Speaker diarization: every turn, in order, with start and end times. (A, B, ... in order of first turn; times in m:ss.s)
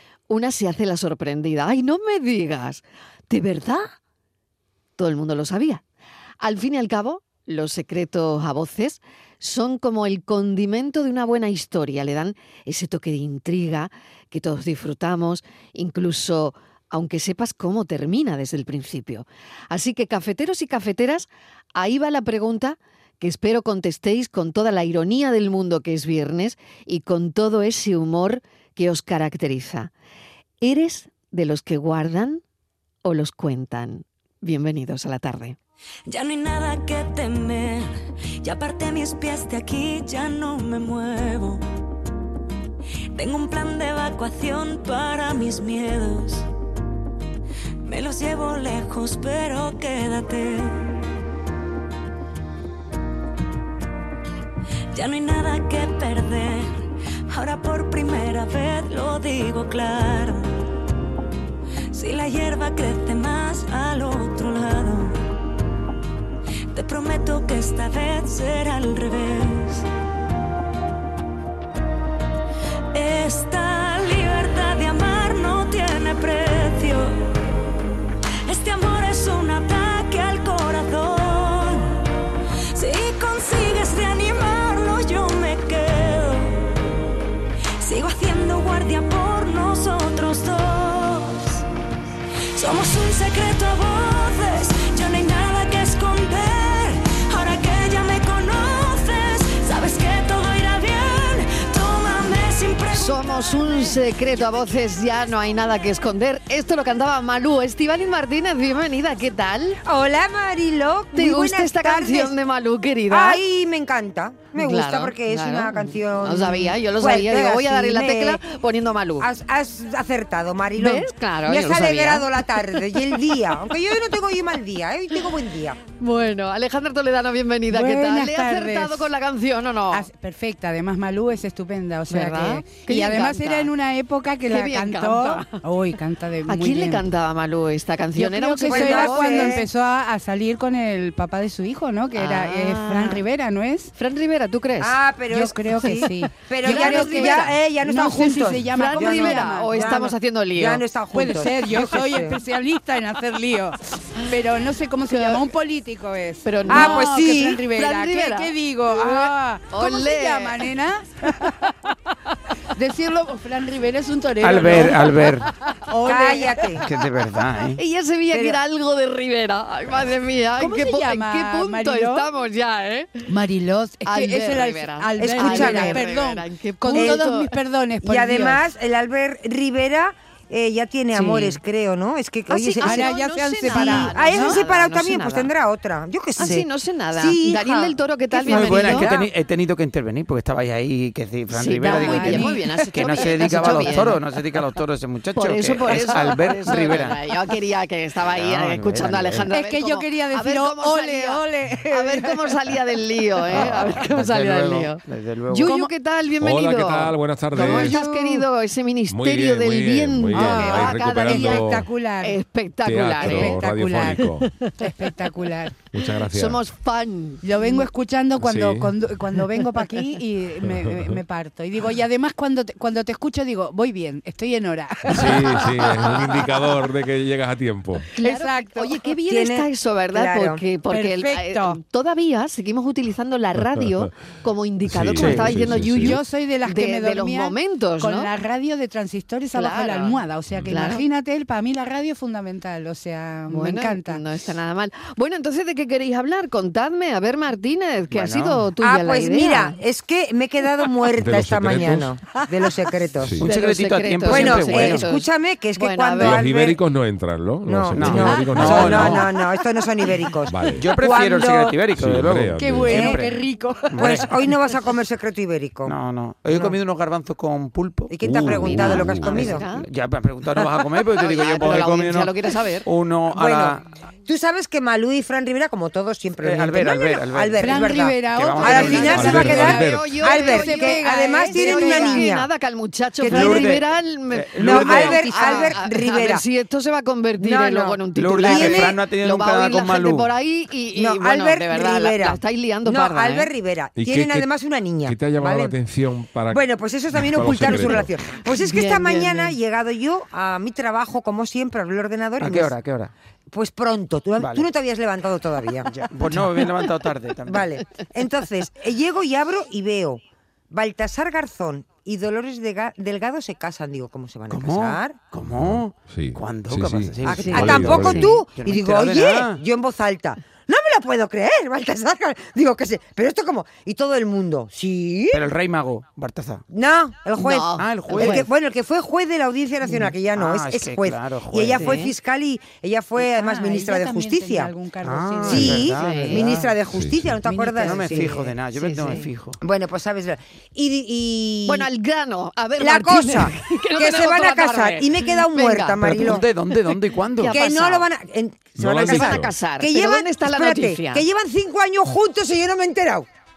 0:00.3-0:03.9 A
0:05.0-0:05.8 A
0:06.4-0:29.9 A
0:30.6-0:32.4 A
0:33.0-0:35.6 A
0:36.1-0:41.6 B
0:43.1-0:46.5 B
0:47.8-0:51.0 B
0:54.9-1:00.5 B
1:01.9-1:05.2 B
1:06.7-1:09.8 B
1:12.9-1:17.5 B
1:18.4-1:22.1 B
1:22.7-1:26.9 B
1:27.8-1:31.6 B
1:32.5-1:44.7 B
1:42.9-1:49.8 A
1:49.8-1:52.4 C
1:51.1-1:53.4 A
1:53.1-1:58.4 C
1:54.5-1:59.3 A
1:59.2-2:05.8 C
2:00.8-2:03.6 A
2:06.0-2:10.1 A
2:07.7-2:09.1 D
2:09.9-2:17.0 D
2:12.1-2:13.7 A
2:14.5-2:15.6 A
2:16.5-2:19.6 A
2:18.1-2:23.9 D
2:18.7-2:19.7 C
2:22.1-2:23.2 A
2:24.0-2:25.0 A
2:24.8-2:30.0 C
2:25.3-2:30.1 D
2:25.8-2:27.6 A
2:28.7-2:30.8 A
2:30.5-2:32.4 C
2:31.1-2:41.9 D
2:35.1-2:35.5 A
2:36.4-2:37.1 A
2:36.7-2:37.6 C
2:37.7-2:40.6 A
2:42.7-2:46.8 D
2:44.4-2:45.5 E
2:46.0-2:46.8 C
2:46.8-2:47.8 E
2:47.8-2:53.2 A
2:48.3-2:48.6 C
2:50.6-2:52.2 D
2:53.3-2:58.6 D
2:54.0-2:57.6 A
2:55.2-2:56.0 C
2:57.0-2:57.2 C
2:58.0-3:03.1 C
3:01.1-3:01.6 A
3:02.5-3:05.5 A
3:02.8-3:04.6 D
3:03.7-3:09.3 C
3:06.4-3:09.1 A
3:08.4-3:17.2 E
3:11.5-3:14.2 A
3:11.8-3:14.2 D
3:15.3-3:33.6 A
3:18.3-3:19.5 E
3:19.5-3:22.6 D
3:23.6-3:25.8 E
3:26.4-3:28.0 F
3:27.5-3:28.4 D
3:29.1-3:31.9 F
3:30.4-3:32.4 D
3:32.8-3:34.5 F
3:33.2-3:35.8 D
3:35.9-3:36.6 F
3:36.3-3:37.8 A
3:37.4-3:46.4 D
3:38.4-3:38.9 F
3:40.6-3:41.2 F
3:45.1-3:48.0 F
3:48.2-3:58.3 A
3:48.2-3:49.0 D
3:49.2-3:50.6 C
3:50.9-3:51.8 D
3:53.6-3:54.1 F
3:54.8-3:56.2 F
3:55.1-3:55.6 E
3:55.6-4:04.2 D
3:59.5-4:01.0 A
4:03.5-4:09.8 A
4:08.1-4:08.7 E
4:08.8-4:13.4 C
4:11.2-4:12.2 F
4:13.2-4:13.4 F
4:13.4-4:15.1 E
4:13.4-4:16.5 A
4:14.3-4:16.8 C
4:16.2-4:19.3 F
4:17.6-4:21.8 C
4:17.9-4:19.2 E
4:18.1-4:18.8 D
4:19.4-4:19.7 D
4:20.5-4:20.9 F
4:20.8-4:23.3 E
4:22.0-4:23.1 F
4:22.6-4:24.2 D
4:22.9-4:23.2 C
4:23.9-4:24.3 E
4:24.0-4:26.0 C
4:25.8-4:33.8 E
4:26.5-4:26.8 C
4:28.1-4:29.6 C
4:28.2-4:29.5 F
4:28.6-4:29.8 A
4:31.1-4:32.9 A
4:33.3-4:42.5 C
4:36.4-4:39.8 E
4:37.6-4:42.3 D
4:38.6-4:53.5 A
4:39.1-4:40.2 F
4:43.2-4:45.7 E
4:43.2-4:43.8 C
4:44.6-4:46.4 C
4:47.4-4:49.0 C
4:48.1-4:50.3 E
4:50.9-4:55.8 C
4:54.0-4:54.5 F
4:55.0-4:58.1 F
4:56.5-5:02.8 C
4:58.4-4:59.5 A
5:02.4-5:03.1 E
5:03.5-5:05.9 C
5:04.4-5:04.7 E
5:05.9-5:07.7 E
5:07.4-5:15.2 C
5:14.5-5:19.6 E
5:15.4-5:18.3 F
5:17.2-5:25.4 C
5:17.3-5:18.4 A
5:25.3-5:26.6 E
5:26.7-5:34.7 C
5:27.4-5:28.4 A
5:27.8-5:28.5 E
5:30.3-5:32.0 E
5:31.8-5:32.1 A
5:33.2-5:36.3 D
5:35.0-5:36.7 E
5:35.5-5:38.5 C
5:35.9-5:36.4 A
5:36.9-5:37.4 F
5:37.5-5:38.1 D
5:37.8-5:39.6 E
5:38.7-5:39.3 A
5:39.6-5:41.9 C
5:41.6-5:46.0 A
5:42.8-5:46.4 C
5:46.0-5:47.5 E
5:46.7-5:48.1 A
5:47.5-5:53.3 C
5:48.8-5:49.5 F
5:48.9-5:51.2 A